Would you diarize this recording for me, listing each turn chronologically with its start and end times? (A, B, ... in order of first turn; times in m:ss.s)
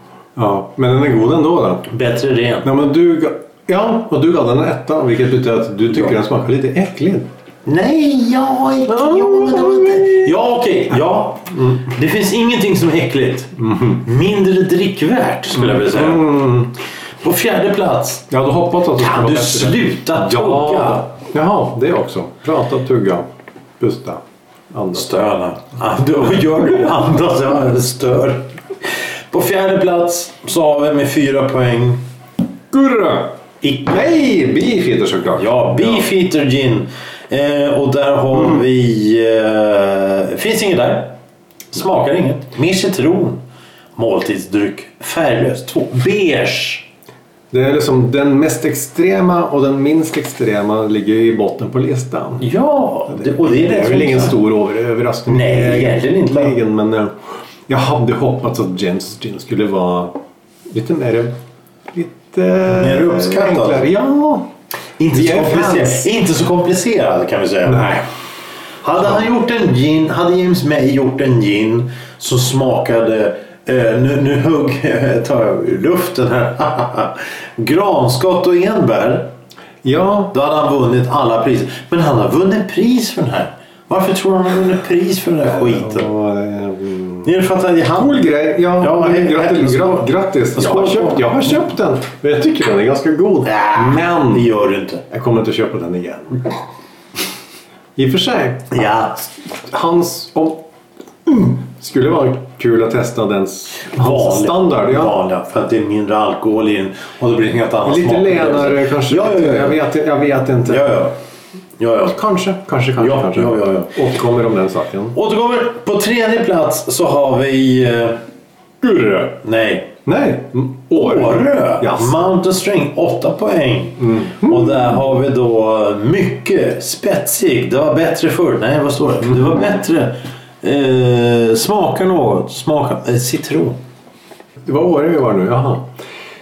0:00.4-0:01.9 A
0:01.9-0:02.7 B
0:02.6-0:07.3 A
0:07.6-0:16.4 B
0:08.9-0:10.2 A
0:11.6-0:11.8 A
0:13.6-0:14.0 A
0:15.5-0:16.7 A
0:17.2-0:18.3 B
0:18.3-0:23.3 A
0:19.0-0:21.1 B
0:23.8-0:24.2 A
0:24.7-0:25.2 A
0:24.9-0:32.0 B
0:32.7-0:36.0 A
0:33.6-0:34.0 B
0:35.4-0:41.1 B
0:41.7-0:43.4 B
0:44.0-0:46.9 B
0:47.5-0:52.5 A
0:52.4-0:54.4 B
0:53.1-0:57.1 A
0:55.3-0:56.6 B
0:57.7-1:00.2 A
1:00.7-1:01.4 A
1:01.9-1:04.5 A
1:02.6-1:03.8 B
1:05.0-1:08.0 B
1:05.1-1:06.1 A
1:07.7-1:08.0 A
1:08.8-1:19.3 B
1:19.8-1:20.3 A
1:20.3-1:26.1 B
1:25.4-1:27.3 A
1:27.2-1:28.2 B
1:27.9-1:34.5 A
1:28.7-1:31.4 B
1:33.4-1:35.0 B
1:35.1-1:36.6 A
1:38.0-1:38.7 A
1:38.7-1:39.3 B
1:39.7-1:40.6 A
1:41.3-1:45.1 A
1:43.9-1:49.8 B
1:47.8-1:51.0 A
1:50.6-1:51.1 B
1:51.8-1:52.2 B
1:52.1-1:55.2 A
1:53.0-1:53.9 B
1:55.1-1:58.2 B
1:58.8-1:59.3 A
1:59.4-1:59.9 B
2:00.0-2:02.1 A
2:01.0-2:13.8 B
2:04.0-2:04.8 A
2:14.6-2:15.9 A